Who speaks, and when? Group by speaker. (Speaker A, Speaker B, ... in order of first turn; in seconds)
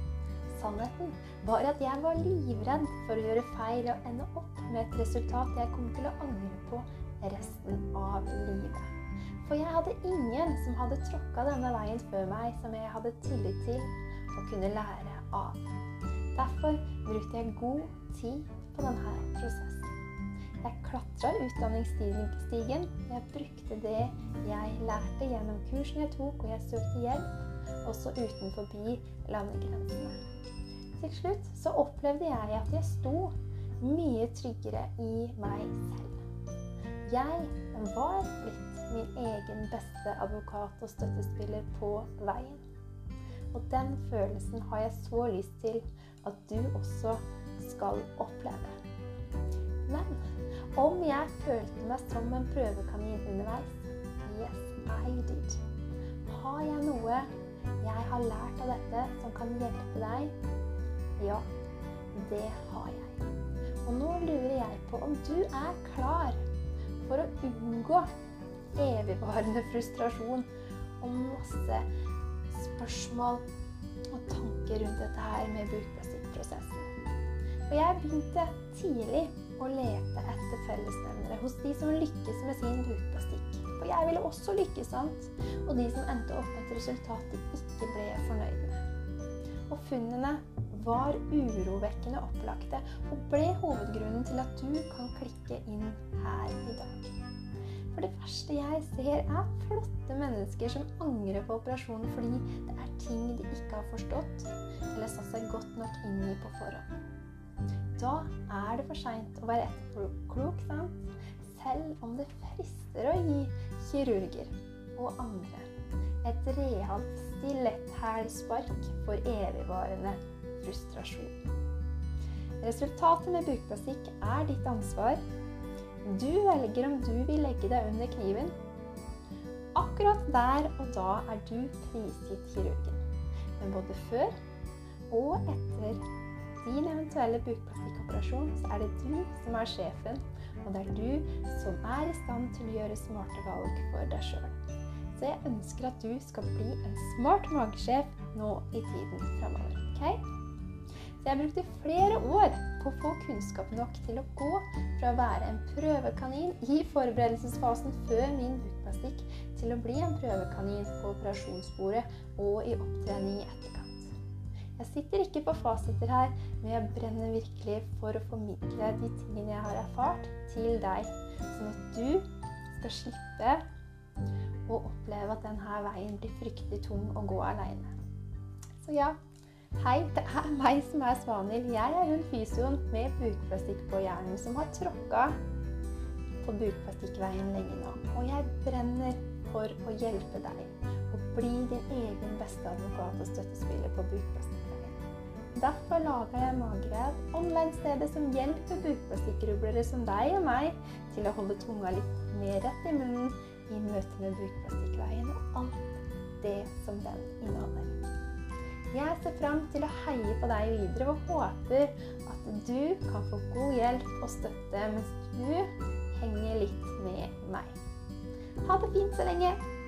Speaker A: 0.5-8.9, 9.4-15.7, 16.4-19.9, 20.6-30.2, 31.0-36.2, 37.1-42.6, 43.5-48.8, 49.9-55.6, 56.3-57.3, 57.8-60.3, 61.2-61.5, 62.1-63.2, 63.9-66.4, 67.0-68.1, 68.8-70.5, 71.0-71.9, 72.5-73.5, 74.1-76.9, 77.7-88.8, 89.7-97.2, 97.9-107.0, 108.0-115.7, 116.2-121.5, 122.6-125.2, 126.0-128.5, 129.8-133.0, 133.6-134.3, 135.1-136.0, 136.6-144.6, 145.2-150.2, 151.2-164.1, 164.8-173.6, 174.7-177.9, 178.8-179.2, 179.8-185.4, 186.4-195.0, 195.5-208.0, 208.9-217.8, 218.6-219.6